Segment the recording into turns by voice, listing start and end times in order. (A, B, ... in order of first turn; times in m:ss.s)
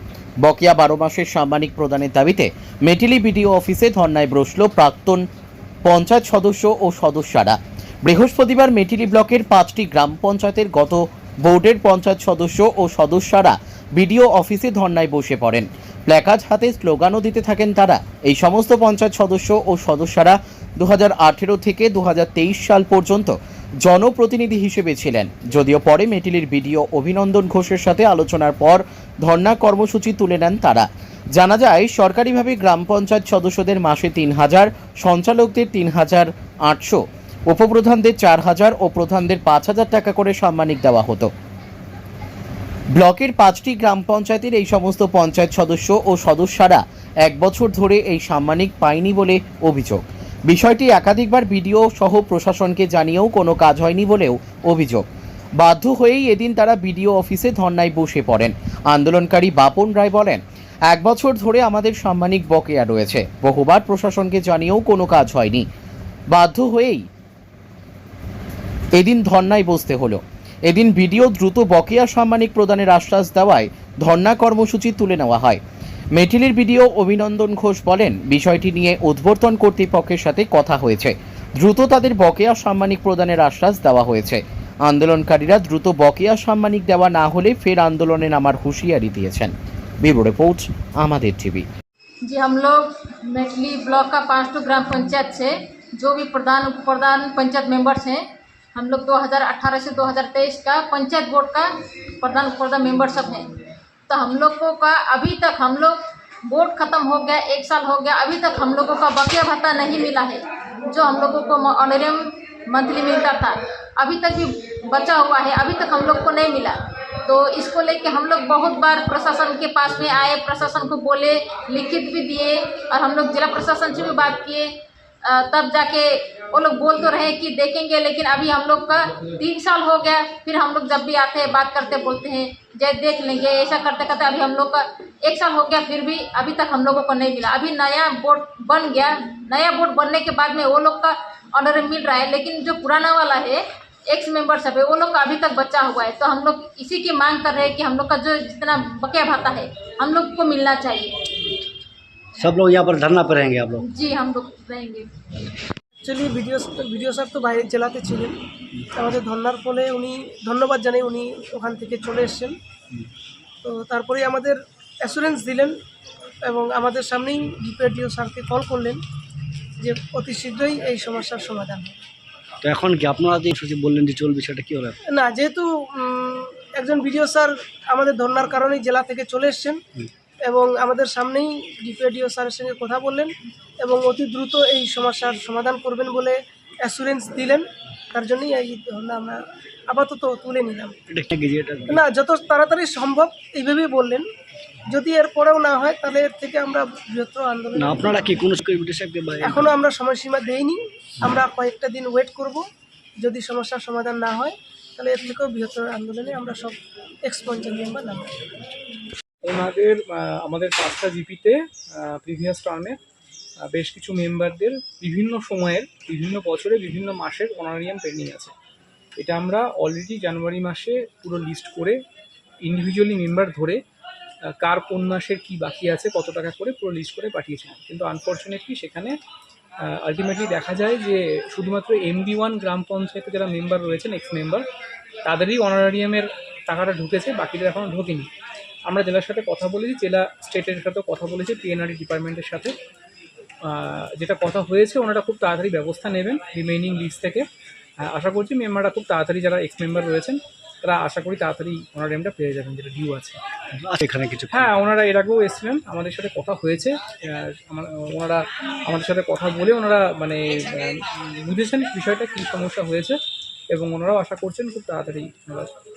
0:00.4-0:05.2 A
0:05.8-0:41.3 A
0:42.9-0:55.0 A
0:55.6-1:05.6 A
1:06.3-1:07.0 A
1:09.0-1:15.6 A
1:16.2-1:31.7 A
1:32.2-1:38.2 B
1:38.8-1:43.5 B
1:44.1-2:04.7 B
2:05.2-2:31.2 B
2:32.4-2:33.8 C
2:33.9-2:35.1 B
2:36.0-2:38.4 D
2:39.0-2:42.6 D
2:43.6-2:45.8 D
2:46.4-2:49.0 D
2:49.8-2:52.0 D
2:52.6-2:55.0 C
2:55.1-2:59.8 D
3:00.4-3:11.0 D
3:11.1-3:12.0 C
3:11.9-3:14.3 D
3:14.9-3:18.3 D
3:17.8-3:19.7 C
3:19.4-3:22.7 D
3:23.2-3:28.5 D
3:29.4-3:33.0 E
3:33.7-3:38.5 E
3:39.2-3:42.0 E
3:42.6-3:43.8 E
3:44.6-3:49.2 E
3:49.8-3:54.6 E
3:55.2-3:58.3 E
3:58.9-4:02.7 E
4:03.6-4:07.4 E
4:08.0-4:13.4 E
4:13.8-4:14.8 C
4:14.5-4:23.2 E
4:23.7-4:25.7 E